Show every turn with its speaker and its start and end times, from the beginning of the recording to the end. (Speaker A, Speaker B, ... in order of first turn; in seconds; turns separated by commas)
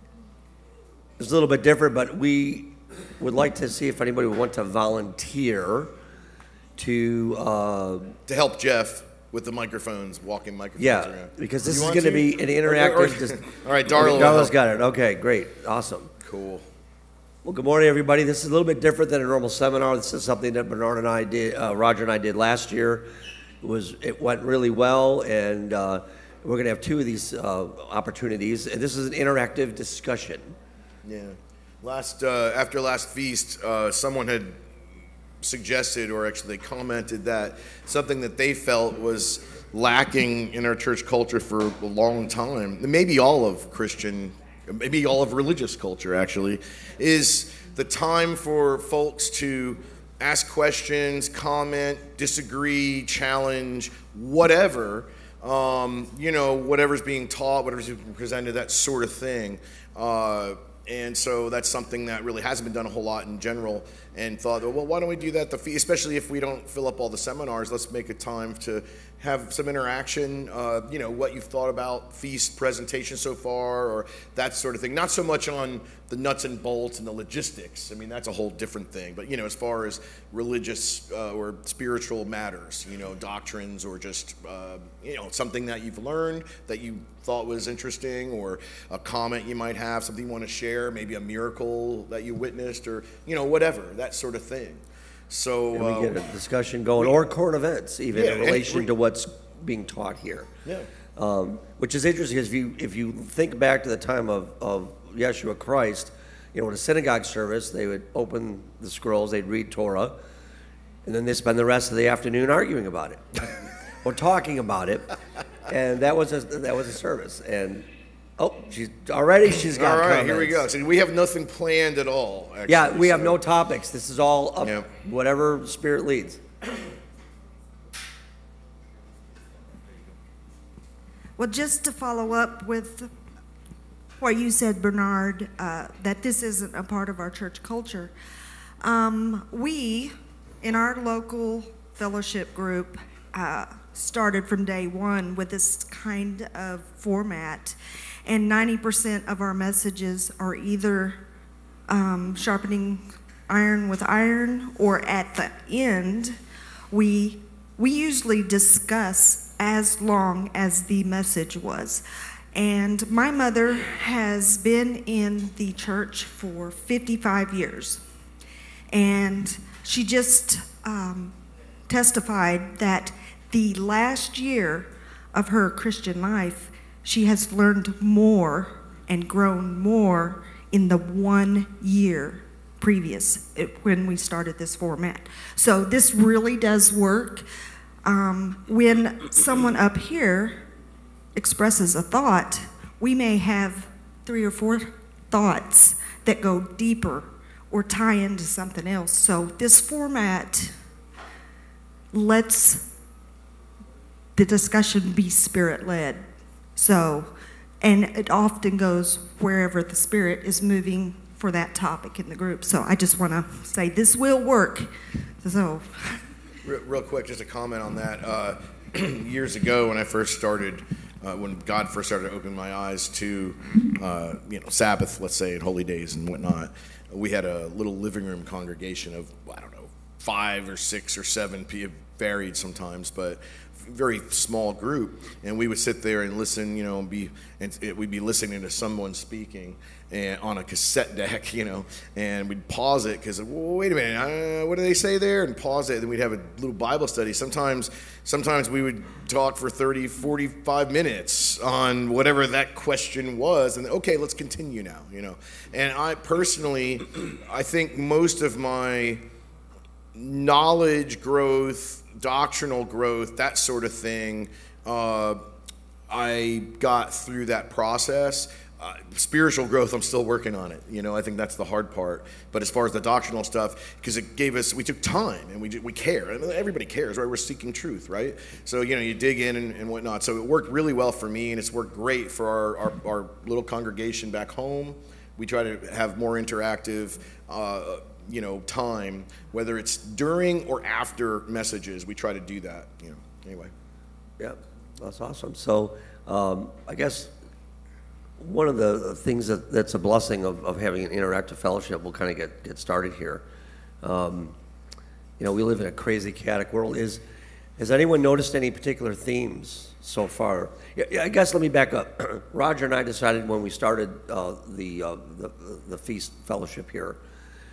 Speaker A: 1.2-5.9, Speaker A: 6.8-8.1, Speaker B: 8.3-14.5, Speaker A: 10.8-16.1, Speaker B: 16.2-16.7, Speaker A: 17.4-23.1, Speaker A: 23.6-30.5, Speaker B: 31.1-34.6, Speaker B: 35.4-96.2, Speaker A: 95.7-100.5, Speaker B: 98.1-98.9, Speaker A: 101.2-110.2, Speaker A: 111.0-113.4, Speaker A: 114.0-115.1, Speaker A: 115.7-117.9, Speaker A: 118.4-120.7, Speaker B: 119.6-123.4, Speaker A: 122.7-126.4, Speaker B: 124.6-124.9, Speaker C: 131.4-133.1, Speaker C: 134.2-138.1, Speaker C: 138.8-151.2, Speaker C: 151.9-156.4, Speaker C: 156.9-162.0, Speaker C: 162.5-168.0, Speaker C: 168.9-171.3, Speaker C: 171.9-187.4, Speaker C: 188.0-190.6, Speaker C: 191.3-200.7, Speaker C: 202.1-202.9, Speaker C: 204.3-206.2, Speaker C: 206.8-214.9, Speaker C: 215.4-216.2, Speaker B: 216.6-259.2, Speaker B: 260.1-265.4, Speaker B: 266.1-293.7, Speaker A: 294.4-297.3, Speaker A: 298.4-303.4, Speaker A: 304.0-304.6, Speaker A: 305.4-307.2, Speaker A: 307.8-317.2